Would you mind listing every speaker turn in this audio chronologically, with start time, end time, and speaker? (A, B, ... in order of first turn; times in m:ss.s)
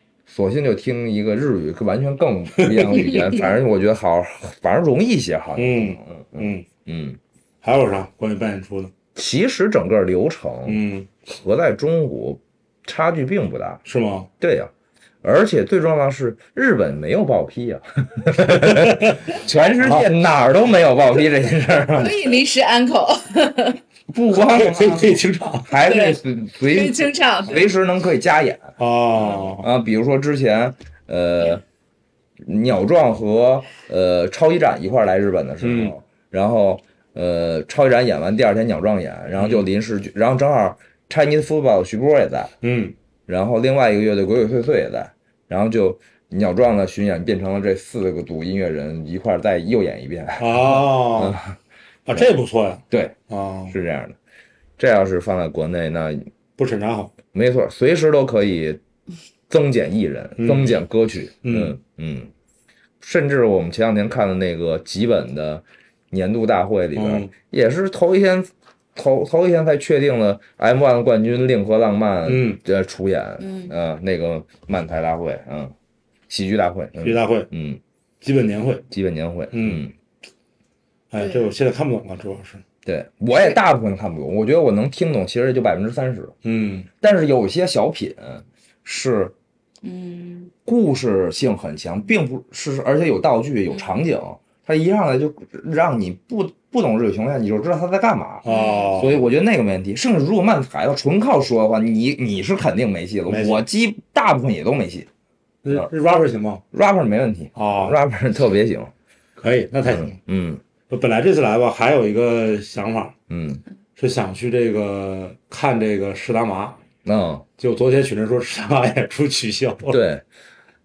0:00.3-0:07.2 A
0:02.6-0:03.4 B
0:05.6-0:06.7 B
0:07.6-0:08.9 B
0:09.1-0:13.8 A
0:10.6-0:11.1 B
0:13.8-0:14.3 B
0:14.4-0:14.7 A
0:15.2-0:22.3 A
0:18.4-0:19.2 B
0:19.8-0:20.1 B
0:21.9-0:23.8 C
0:24.1-0:31.6 A
0:24.4-0:25.7 B
0:25.8-0:27.6 C
0:28.8-0:29.7 B
0:32.4-0:42.5 A
0:35.6-0:35.9 B
0:39.4-0:39.7 B
0:42.6-0:43.0 B
0:43.3-0:51.6 A
0:50.4-0:51.4 B
0:52.1-0:53.7 B
0:52.9-0:53.2 A
0:53.7-0:54.2 A
0:54.8-0:56.3 A
0:56.6-0:57.1 B
0:57.3-0:58.8 A
0:59.5-1:02.3 A
1:00.4-1:00.8 B
1:01.4-1:01.8 B
1:03.0-1:15.7 A
1:07.0-1:07.3 B
1:12.2-1:12.6 B
1:13.4-1:13.7 C
1:16.3-1:17.8 A
1:17.0-1:17.5 B
1:18.2-1:18.8 B
1:18.9-1:19.9 A
1:19.5-1:19.8 B
1:21.1-1:22.6 B
1:21.2-1:21.5 C
1:22.8-1:26.3 A
1:26.4-1:26.9 B
1:27.0-1:29.3 A
1:29.8-1:30.5 C
1:30.6-1:45.1 A
1:33.7-1:34.0 C
1:38.4-1:39.2 B
1:38.5-1:39.3 C
1:43.3-1:43.6 B
1:45.6-1:46.6 B
1:46.7-1:48.9 A
1:47.5-1:47.9 B
1:49.4-1:50.1 B
1:49.9-1:50.6 A
1:50.9-1:53.1 B
1:53.3-1:53.6 A
1:54.0-1:56.8 B
1:57.0-1:57.4 A
1:57.6-2:00.0 B
1:59.9-2:00.2 A